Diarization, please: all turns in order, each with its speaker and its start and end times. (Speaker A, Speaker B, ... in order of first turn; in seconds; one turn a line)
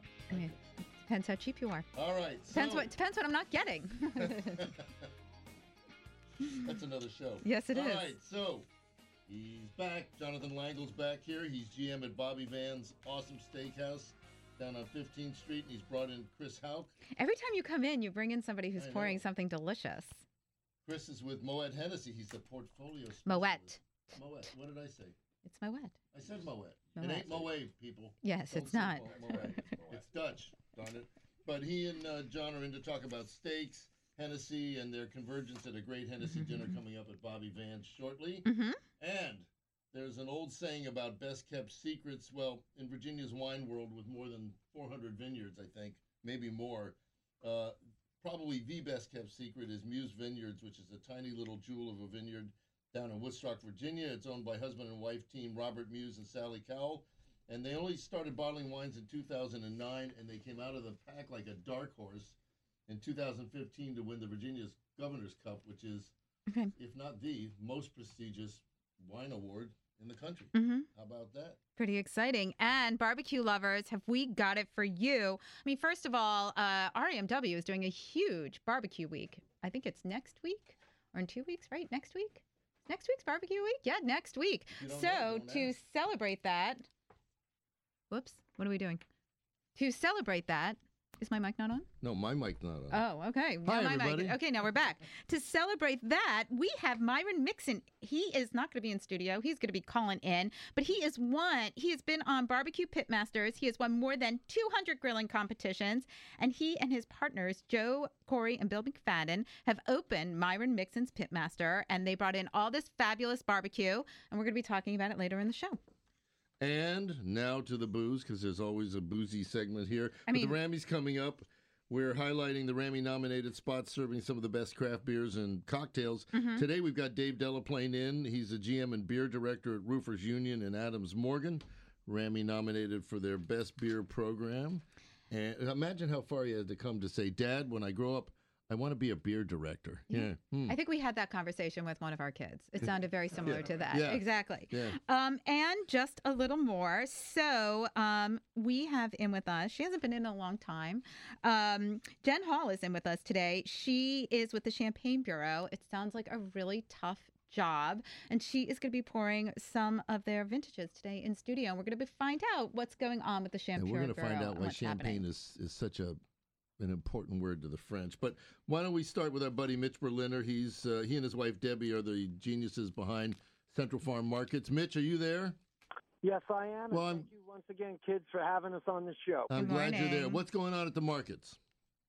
Speaker A: 0.3-1.9
Speaker B: 1.9-2.9
Speaker A: 2.5-4.7
Speaker B: 4.2-5.1
Speaker B: 6.4-8.7
Speaker A: 7.4-8.1
Speaker B: 9.3-16.9
Speaker A: 17.1-20.2
Speaker B: 18.8-19.2
Speaker B: 20.8-25.1
Speaker A: 23.2-23.8
Speaker A: 25.4-25.9
Speaker B: 26.1-38.5
Speaker A: 27.0-27.5
Speaker A: 28.2-29.7
Speaker A: 36.4-36.7
Speaker A: 38.4-38.8
Speaker B: 39.0-62.4
Speaker B: 62.9-66.1
Speaker A: 66.5-66.7
Speaker B: 66.7-71.6
Speaker A: 70.5-70.9
Speaker A: 71.8-86.9
Speaker B: 84.8-85.7
Speaker A: 88.1-89.0
Speaker A: 89.8-91.9
Speaker B: 92.0-93.0
Speaker A: 92.9-115.8
Speaker B: 93.6-94.4
Speaker B: 116.6-140.8
Speaker A: 120.3-120.5
Speaker A: 126.3-126.6
Speaker A: 140.1-165.2
Speaker B: 143.4-145.0
Speaker B: 163.8-166.2
Speaker B: 166.8-175.6
Speaker C: 176.2-179.6
Speaker B: 176.9-177.3
Speaker B: 179.5-181.6
Speaker A: 179.6-180.4